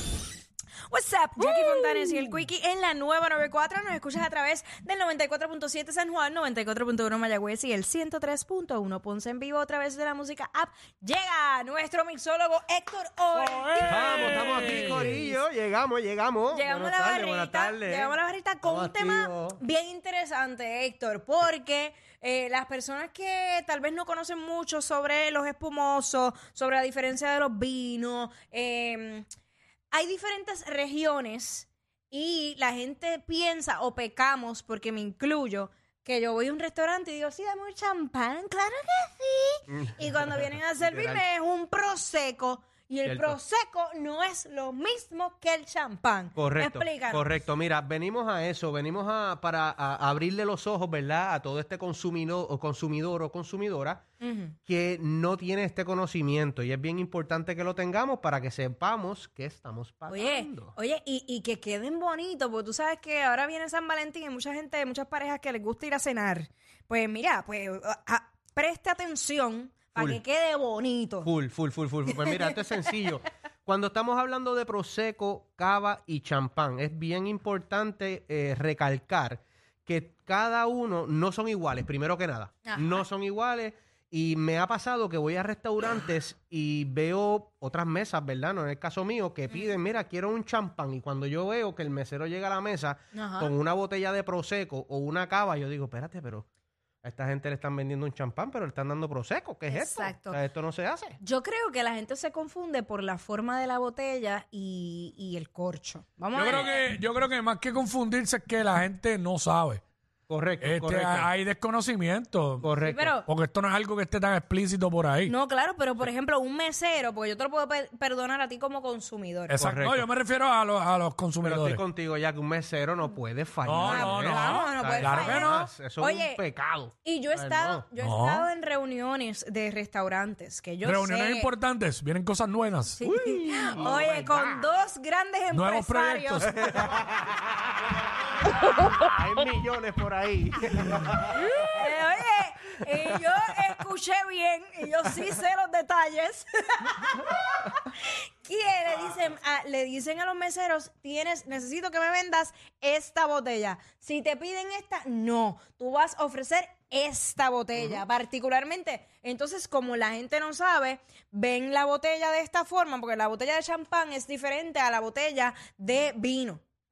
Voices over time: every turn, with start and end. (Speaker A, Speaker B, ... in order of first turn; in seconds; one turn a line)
Speaker A: 0.9-15.4
Speaker B: 13.3-15.2
Speaker C: 13.9-19.6
Speaker A: 16.5-29.3
Speaker A: 29.9-47.3
Speaker C: 39.7-41.2
Speaker C: 43.1-43.4
Speaker C: 46.4-54.0
Speaker A: 54.2-54.6
Speaker C: 54.7-60.8
Speaker A: 60.1-71.3
Speaker C: 70.0-70.2
Speaker C: 71.2-96.5
Speaker A: 72.2-72.5
Speaker A: 82.7-83.0
Speaker A: 93.1-93.5
Speaker C: 97.0-101.2
Speaker A: 99.7-100.4
Speaker A: 101.2-106.8
Speaker B: 106.3-109.8
Speaker C: 106.4-106.7
Speaker C: 110.3-111.3
Speaker B: 110.6-112.7
Speaker C: 112.6-113.2
Speaker A: 112.8-113.3
Speaker B: 113.2-115.3
Speaker A: 115.3-119.6
Speaker B: 119.5-121.8
Speaker C: 119.6-120.1
Speaker C: 121.4-127.9
Speaker B: 123.7-125.7
Speaker A: 123.8-126.4
Speaker A: 127.0-131.5
Speaker B: 128.0-128.5
Speaker B: 130.8-133.0
Speaker A: 133.0-136.5
Speaker C: 133.0-134.7
Speaker B: 135.5-136.7
Speaker C: 136.4-137.5
Speaker C: 138.9-141.6
Speaker A: 141.4-166.6
Speaker C: 157.8-158.0